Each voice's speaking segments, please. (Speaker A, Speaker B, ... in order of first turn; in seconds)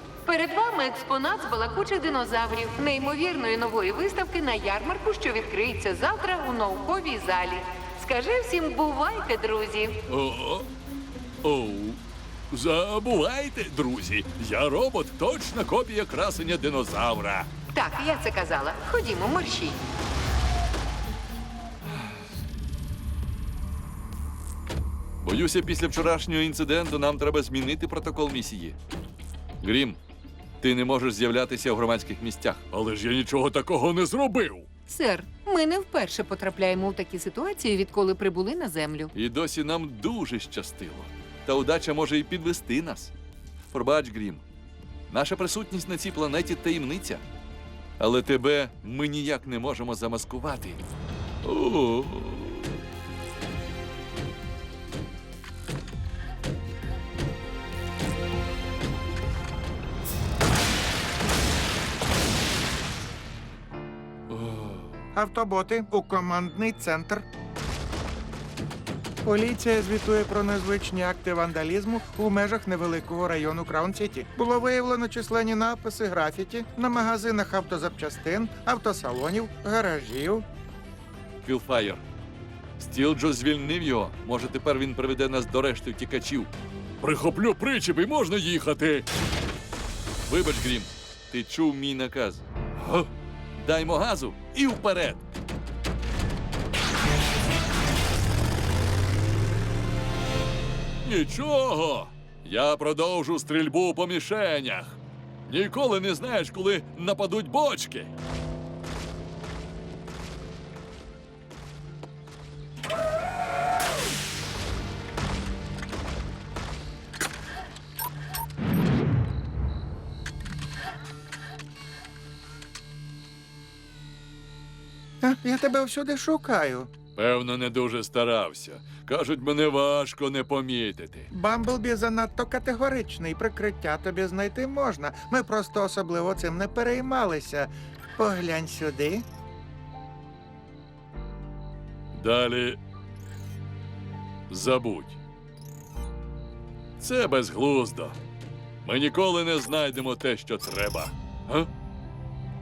Speaker A: 0.2-10.0, 17.7-19.8, 34.9-39.1
Speaker B: 10.1-10.7, 11.4-12.0, 12.5-17.5, 25.2-28.8, 29.6-30.0, 30.6-34.7, 39.1-43.1, 43.7-44.4, 45.1-47.2, 48.0-50.8, 51.4-52.8, 64.3-64.9, 81.4-82.0, 82.8-86.5, 87.0-89.1, 90.3-95.2, 101.0-108.1, 127.2-131.3, 142.1-142.8, 144.5-145.2, 147.0-148.2, 148.8-151.7
Speaker C: 65.1-67.3, 69.2-80.5, 125.2-126.9, 131.3-139.3